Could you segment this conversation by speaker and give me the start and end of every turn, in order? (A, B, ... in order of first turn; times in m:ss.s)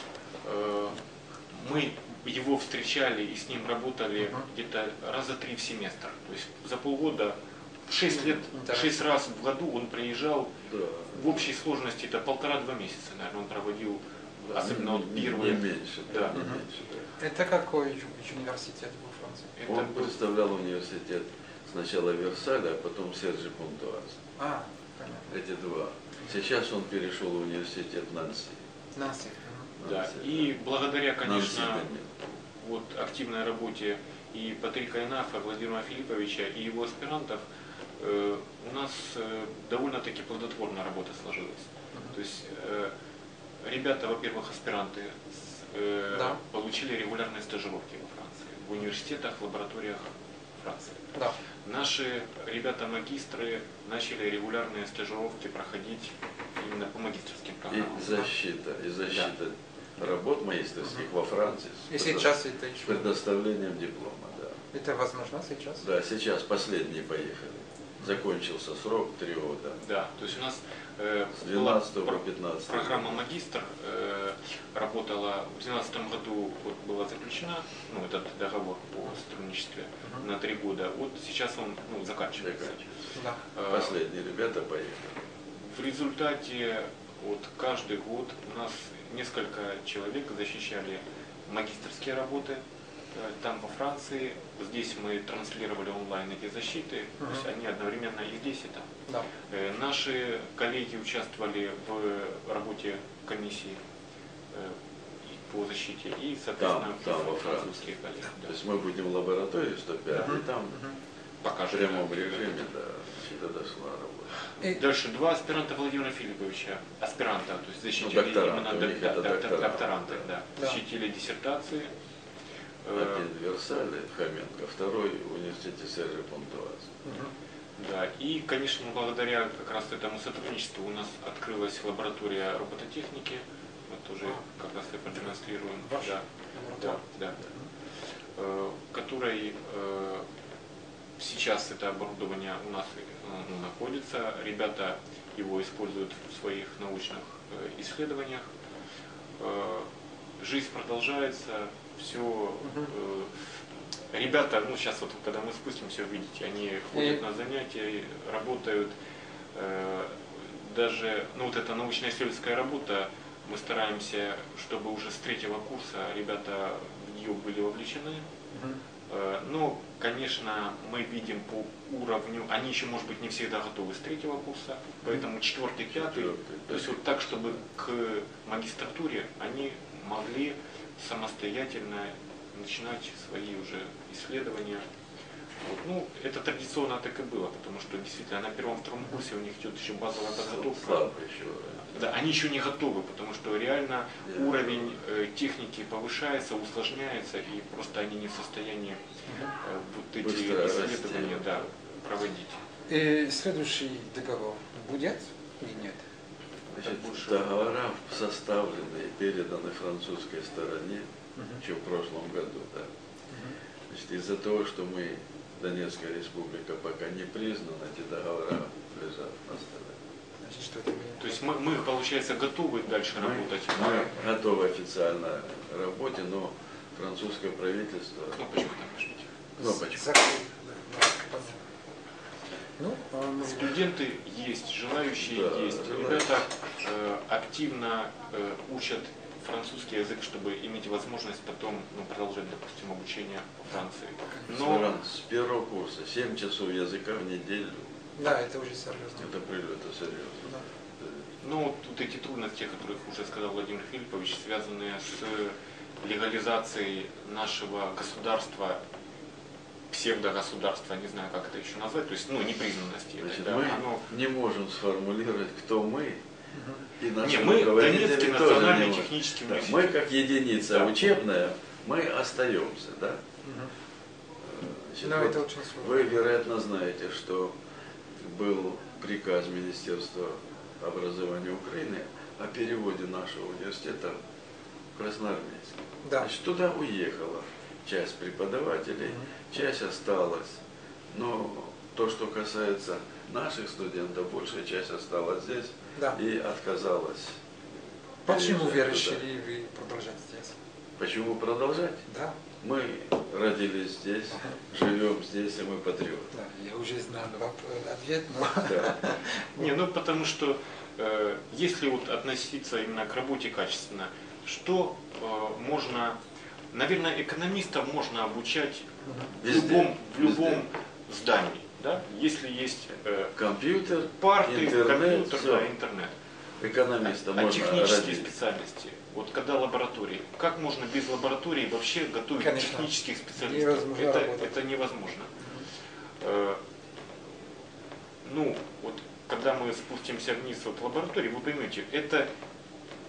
0:00.4-0:10.6 A
0:04.2-0:04.4 B
0:08.1-0:08.9 B
0:10.6-0:11.4 C
0:11.1-0:16.4 A
0:14.5-0:17.1 C
0:16.3-0:16.6 B
0:17.2-0:19.5 B
0:19.6-0:20.2 A
0:19.7-0:24.2 C
0:24.4-0:25.3 B
0:25.3-0:28.6 C
0:28.9-0:29.7 B
0:29.8-0:30.5 C
0:29.8-0:37.4 A
0:31.2-0:32.2 C
0:38.0-0:42.9 A
0:41.9-0:42.2 B
0:43.6-0:51.0 A
0:46.1-0:46.4 B
0:51.6-0:58.0 A
0:57.7-1:04.6 C
0:58.0-0:58.3 B
1:00.8-1:01.1 B
1:01.9-1:03.1 B
1:04.7-1:05.8 B
1:05.8-1:09.8 C
1:09.8-1:22.8 A
1:11.3-1:13.2 C
1:20.0-1:20.3 B
1:22.4-1:23.0 C
1:23.1-1:23.4 B
1:23.5-1:24.0 A
1:23.7-1:25.2 C
1:25.6-1:32.6 A
1:33.1-1:38.9 A
1:37.2-1:37.5 B
1:39.5-1:43.8 A
1:44.5-1:48.5 A
1:46.6-1:47.9 C
1:48.4-1:50.8 C
1:50.1-1:51.0 B
1:51.4-1:52.6 A
1:51.7-1:54.4 C
1:54.6-2:01.9 A
1:58.0-2:00.2 C
2:02.8-2:03.2 A
2:02.9-2:07.0 C
2:07.0-2:07.3 B
2:07.8-2:17.4 A
2:15.8-2:17.7 B
2:18.3-2:20.2 A
2:21.2-2:28.5 A
2:29.4-2:29.9 A
2:30.4-2:33.3 A
2:32.6-2:32.9 B
2:34.1-2:38.9 A
2:36.9-2:37.2 B
2:39.5-2:48.2 A
2:48.5-2:48.8 B
2:49.1-3:04.8 A
2:55.9-2:57.3 C
3:05.6-3:11.1 A
3:10.2-3:11.9 C
3:11.8-3:19.0 A
3:14.2-3:14.9 C
3:19.2-3:19.5 B
3:19.6-3:22.6 A
3:20.2-3:21.5 C
3:22.9-3:26.0 B
3:26.7-3:31.0 C
3:26.8-3:27.7 A
3:31.4-3:31.6 B
3:31.6-3:32.9 C
3:33.3-3:33.6 B
3:33.9-3:40.0 C
3:40.4-3:41.4 B
3:41.2-3:44.1 A
3:43.2-3:48.5 C
3:48.3-3:49.3 A
3:49.6-3:50.1 C
3:49.6-3:51.6 B
3:52.8-3:53.8 B
3:53.4-4:04.9 A
3:55.2-3:56.4 C
4:04.5-4:07.8 C
4:08.2-4:09.3 B
4:09.2-4:11.2 C
4:11.4-4:18.8 A
4:19.9-4:24.0 A
4:23.2-4:26.2 C
4:26.5-4:26.8 B
4:27.0-4:33.2 C
4:27.2-4:29.9 A
4:30.7-4:31.0 A
4:33.4-4:33.7 B
4:34.4-4:37.5 C
4:35.0-4:36.2 B
4:38.2-4:44.2 C
4:45.0-4:50.6 C
4:46.0-4:46.3 B
4:49.0-4:49.3 B
4:51.1-4:57.4 C
4:56.0-4:56.2 B
4:58.2-5:00.6 B
4:58.2-4:59.2 C
5:01.0-5:02.1 C
5:02.1-5:02.4 B
5:02.6-5:06.3 C
5:04.3-5:04.6 B
5:06.3-5:09.7 B
5:08.6-5:08.9 C
5:09.6-5:16.2 A
5:16.7-5:23.3 A
5:19.0-5:19.3 B
5:19.4-5:20.6 C
5:23.4-5:25.7 C
5:24.2-5:26.2 A
5:26.6-5:28.3 C
5:27.0-5:35.3 A
5:32.4-5:34.6 B
5:35.4-5:35.7 B
5:36.2-5:36.6 A
5:38.2-5:42.3 A